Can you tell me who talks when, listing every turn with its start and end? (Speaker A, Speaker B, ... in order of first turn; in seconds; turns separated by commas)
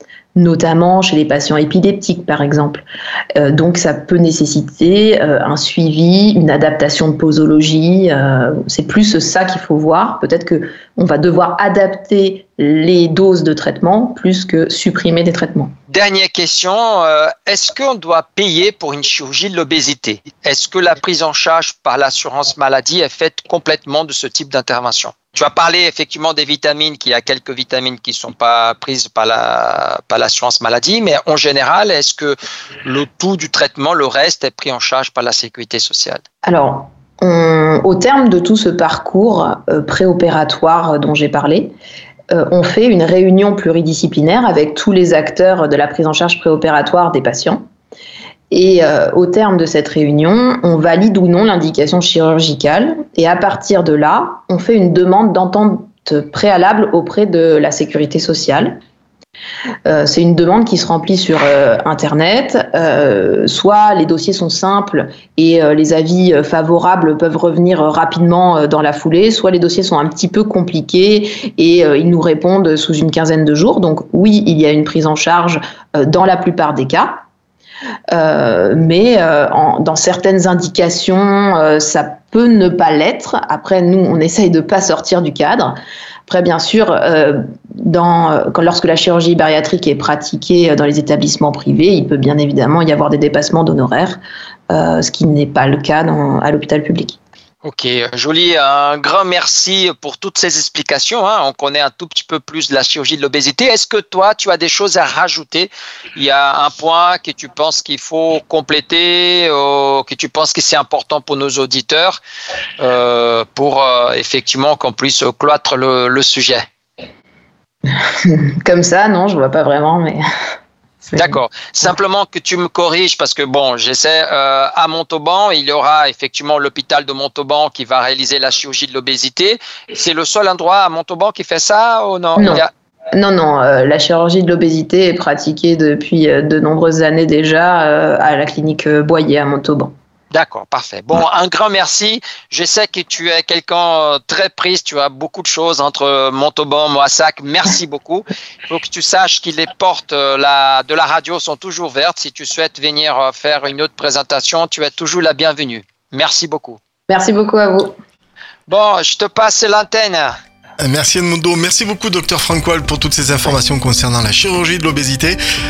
Speaker A: 0.3-15.7, Speaker B: 15.9-36.2, Speaker A: 36.5-41.7, Speaker A: 42.3-47.6, Speaker A: 48.5-58.8, Speaker A: 59.9-77.2, Speaker A: 78.1-85.8, Speaker A: 86.3-94.2, Speaker A: 94.7-97.2, Speaker B: 97.6-112.2, Speaker B: 112.8-116.6, Speaker A: 117.9-120.2, Speaker A: 121.1-121.4, Speaker B: 121.2-132.7, Speaker A: 132.4-139.9, Speaker B: 140.3-156.8, Speaker A: 157.1-158.0, Speaker B: 158.7-160.3, Speaker C: 160.8-165.4